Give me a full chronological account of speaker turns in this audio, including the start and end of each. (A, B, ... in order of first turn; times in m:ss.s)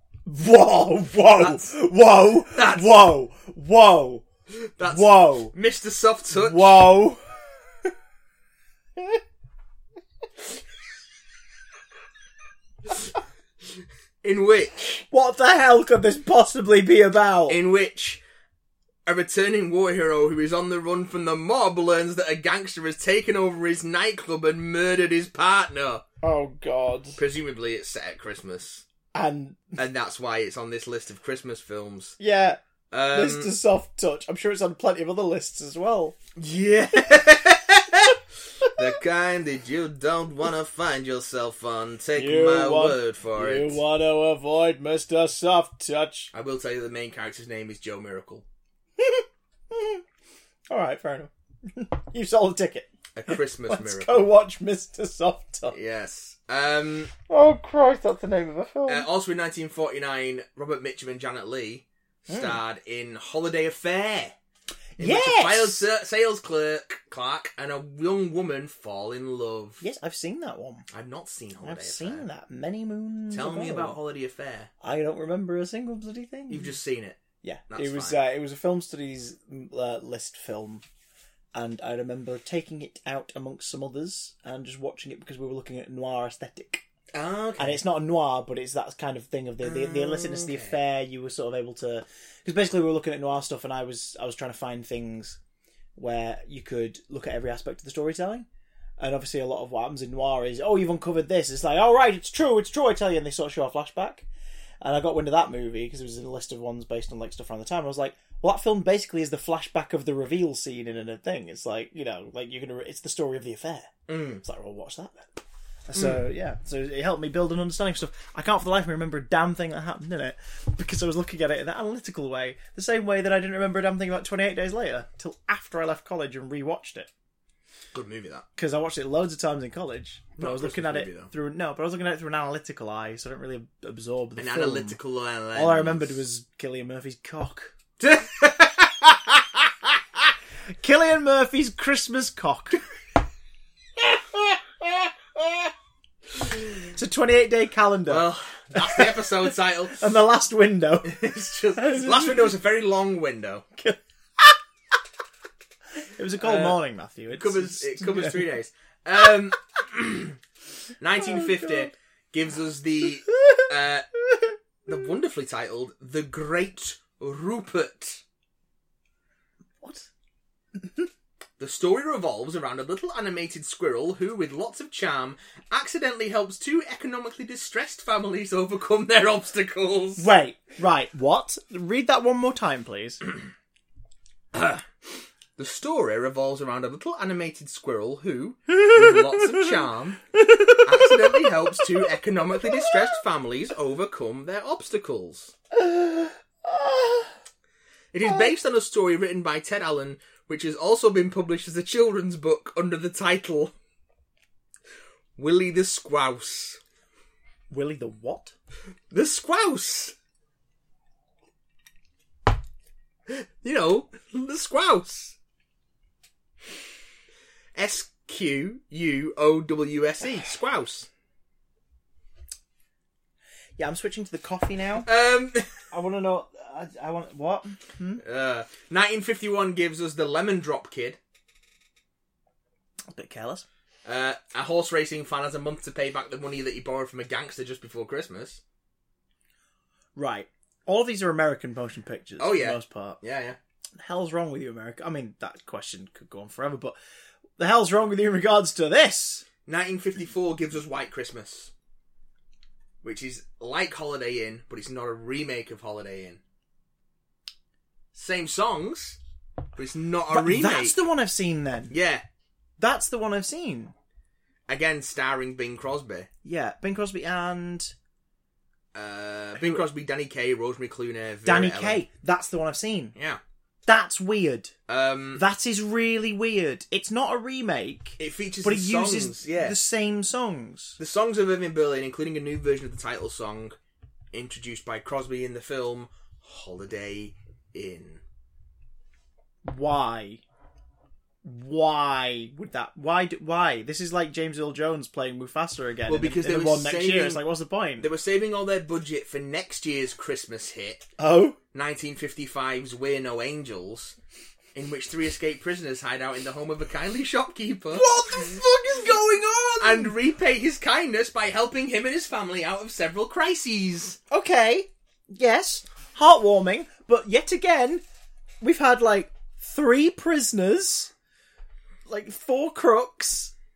0:00.2-0:04.2 A
0:01.4-0:01.7 B
0:02.5-0:02.9 B
0:04.5-0:06.9 B
0:04.8-0:05.5 A
0:06.3-0:07.9 A
0:14.2-0:15.0 B
0:15.1-0:17.6 A
0:17.5-0:18.2 B
0:19.0-0:26.0 B
0:26.2-0:27.2 A
0:27.2-0:28.8 B
0:29.1-0:29.8 A
0:29.8-0:32.2 B
0:32.2-0:32.6 A
0:32.9-0:33.5 B
0:33.1-0:36.2 A
0:36.4-0:43.8 B
0:42.1-0:46.3 A
0:46.3-0:48.4 B
0:49.0-0:50.0 A
0:50.7-0:55.8 A
0:53.1-0:54.3 B
0:55.7-0:57.1 B
0:57.3-0:59.1 A
0:58.9-1:04.3 B
1:02.3-1:02.6 A
1:05.0-1:05.8 A
1:05.0-1:09.8 B
1:09.8-1:10.9 A
1:10.9-1:12.2 B
1:11.6-1:14.0 A
1:13.3-1:14.7 B
1:14.8-1:16.8 A
1:16.5-1:17.2 B
1:17.4-1:20.8 A
1:17.7-1:18.2 B
1:21.5-1:26.8 A
1:27.1-1:27.8 B
1:27.6-1:35.4 A
1:29.6-1:30.8 B
1:36.0-1:38.5 A
1:39.0-1:44.3 A
1:44.8-2:07.1 A
1:54.1-1:54.4 B
2:07.9-2:08.4 B
2:08.6-2:15.0 A
2:10.4-2:11.3 B
2:14.4-2:16.2 B
2:15.5-2:17.7 A
2:18.0-2:19.9 B
2:20.8-2:22.8 A
2:26.9-2:31.2 A
2:28.1-2:30.1 B
2:31.0-2:33.6 B
2:31.7-2:32.6 A
2:33.8-2:34.6 A
2:36.0-2:38.5 A
2:36.4-2:36.8 B
2:37.3-2:40.4 B
2:41.0-2:44.1 B
2:41.2-2:41.9 A
2:43.3-2:43.7 A
2:44.8-2:48.2 B
2:49.8-2:50.1 A
2:50.8-2:51.1 A
2:51.6-3:00.3 B
3:00.2-3:03.2 A
3:04.5-3:04.8 B
3:05.6-3:10.2 B
3:08.7-3:12.1 A
3:10.8-3:15.5 B
3:12.7-3:13.2 A
3:15.7-3:17.3 A
3:18.1-3:23.7 B
3:18.2-3:18.5 A
3:25.4-3:26.8 B
3:27.7-3:28.5 A
3:29.1-3:30.1 B
3:33.3-3:35.3 B
3:37.7-3:41.1 B
3:43.8-3:45.1 A
3:45.0-3:45.9 B
3:45.9-3:48.2 A
3:48.2-3:51.2 B
3:53.1-3:53.6 A
3:54.0-3:58.6 B
4:00.2-4:03.2 A
4:02.4-4:03.6 B
4:04.0-4:07.0 A
4:07.6-4:09.4 A
4:09.6-4:11.7 B
4:13.0-4:16.4 B
4:18.1-4:19.2 B
4:19.7-4:21.0 B
4:20.3-4:21.9 A
4:21.9-4:22.2 B
4:22.8-4:23.9 A
4:24.7-4:26.3 B
4:26.4-4:27.9 A
4:28.9-4:32.0 B
4:29.6-4:29.8 A
4:31.4-4:33.1 A
4:33.9-4:34.7 A
4:34.9-4:35.4 B
4:35.4-4:41.0 A
4:38.2-4:39.8 B
4:41.0-4:43.8 B
4:44.3-4:48.2 B
4:49.6-4:50.4 A
4:51.4-4:58.1 A
4:56.1-4:57.4 B
4:58.0-5:01.1 B
5:01.2-5:01.6 A
5:01.7-5:04.2 B
5:04.7-5:08.1 B
5:07.9-5:10.2 A
5:09.8-5:14.2 B
5:14.3-5:18.0 A
5:18.6-5:21.1 A
5:22.0-5:23.5 A